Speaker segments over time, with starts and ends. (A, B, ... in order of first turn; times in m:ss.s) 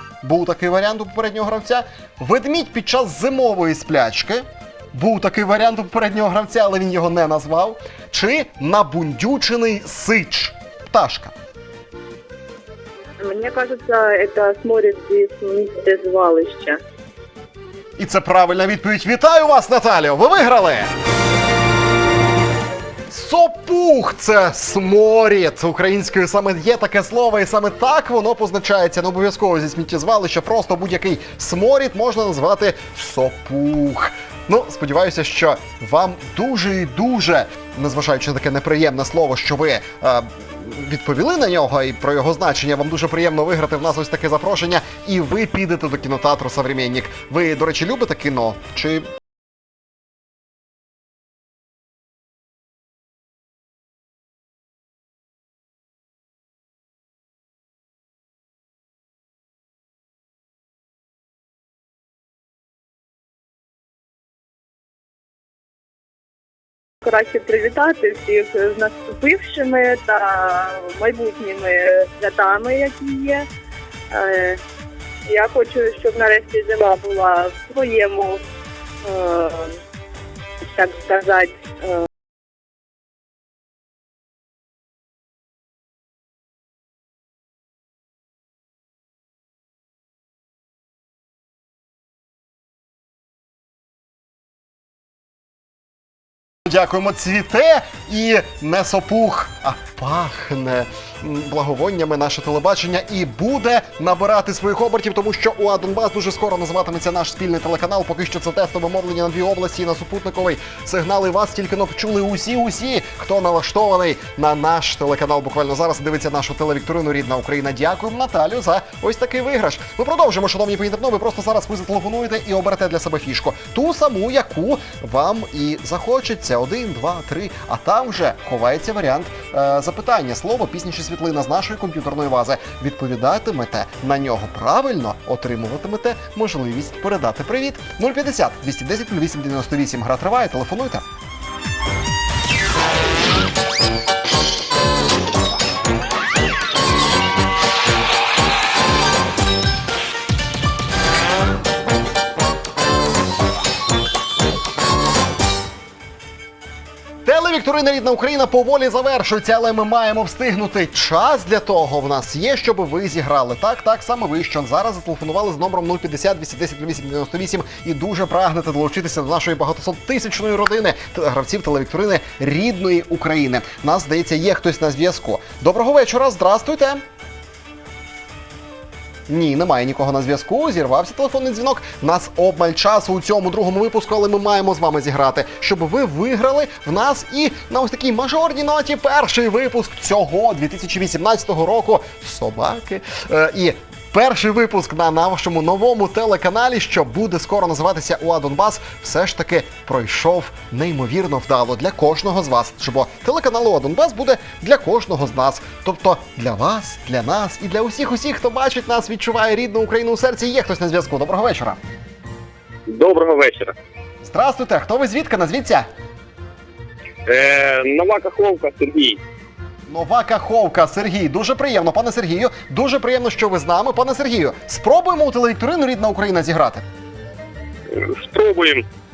0:00.2-0:11.3 A
0:13.2-0:16.8 B
0:18.0-0:20.9 A
0:23.1-0:49.1 A
1:07.0-1:13.4 B
1:14.1-1:14.6 B
1:15.2-1:18.4 B
1:19.0-1:19.8 B
1:20.6-1:22.1 B
1:36.6-2:21.0 A
2:37.2-2:57.0 A
2:59.3-3:31.8 A
3:32.9-3:33.7 C
3:34.2-3:35.9 A
3:37.2-3:39.2 C
3:39.9-3:46.8 A
3:47.9-3:48.8 C